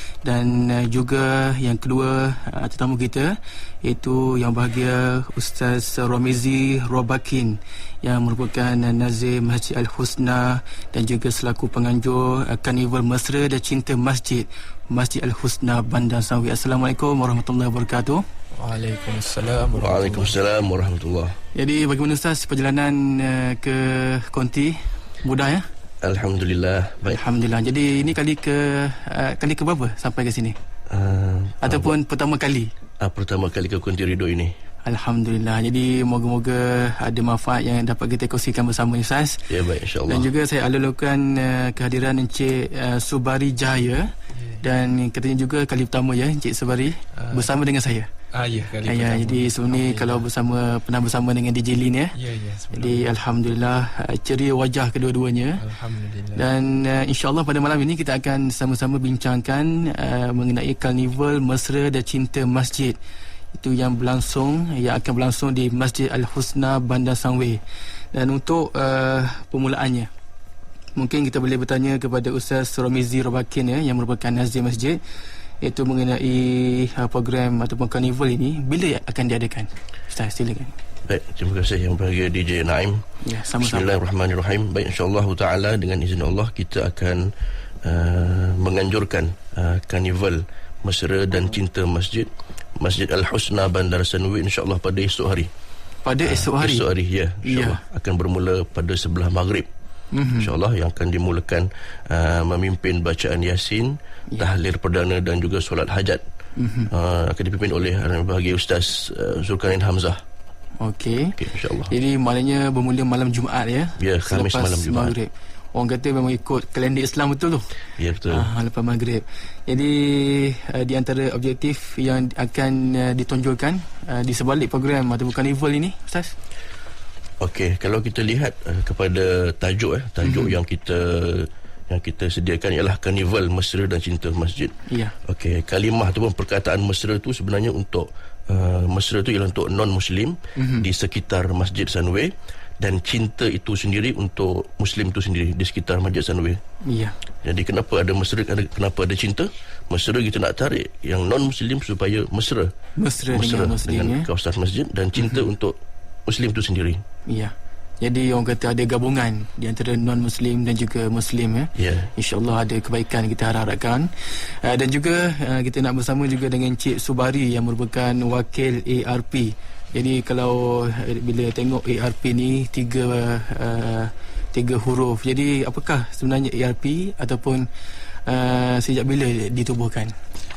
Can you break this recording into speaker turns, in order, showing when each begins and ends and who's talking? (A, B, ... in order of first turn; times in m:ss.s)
0:00.2-0:18.2 A
0:18.6-0:20.4 B
0:19.7-0:21.4 C
0:21.5-0:25.6 A
0:26.0-0:27.2 C
0:27.1-0:30.6 A
0:30.9-0:31.9 C
0:31.6-0:32.7 A
0:33.0-0:34.6 C
0:34.8-0:39.4 A
0:39.5-0:40.3 C
0:40.1-0:48.1 A
0:44.3-0:44.6 B
0:47.2-0:47.5 B
0:48.3-0:50.3 B
0:48.9-0:52.2 A
0:52.1-0:53.1 B
0:52.7-0:55.6 A
0:55.6-0:56.4 B
0:56.4-1:03.0 A
1:03.5-1:07.6 A
1:08.1-1:10.1 A
1:11.0-1:15.0 A
1:15.6-1:20.7 A
1:21.1-1:23.0 C
1:23.2-1:23.9 A
1:23.6-1:27.3 C
1:27.8-1:35.5 C
1:36.0-1:36.9 A
1:36.2-1:39.7 C
1:37.4-1:37.8 A
1:40.1-1:40.5 A
1:40.4-1:46.2 C
1:46.6-1:46.9 A
1:46.9-1:50.2 C
1:50.8-1:51.4 A
1:51.4-1:51.9 C
1:51.9-1:57.7 A
1:54.0-1:55.1 C
1:58.0-1:58.5 C
1:58.3-2:06.3 A
2:07.4-2:26.6 C
2:10.2-2:10.6 A
2:14.9-2:15.1 A
2:20.6-2:20.9 A
2:26.8-2:27.2 A
2:27.4-2:32.7 C
2:33.0-2:34.3 A
2:33.3-2:37.0 C
2:35.2-2:35.4 A
2:37.3-2:57.7 A
2:41.8-2:42.1 C
2:58.3-3:00.1 A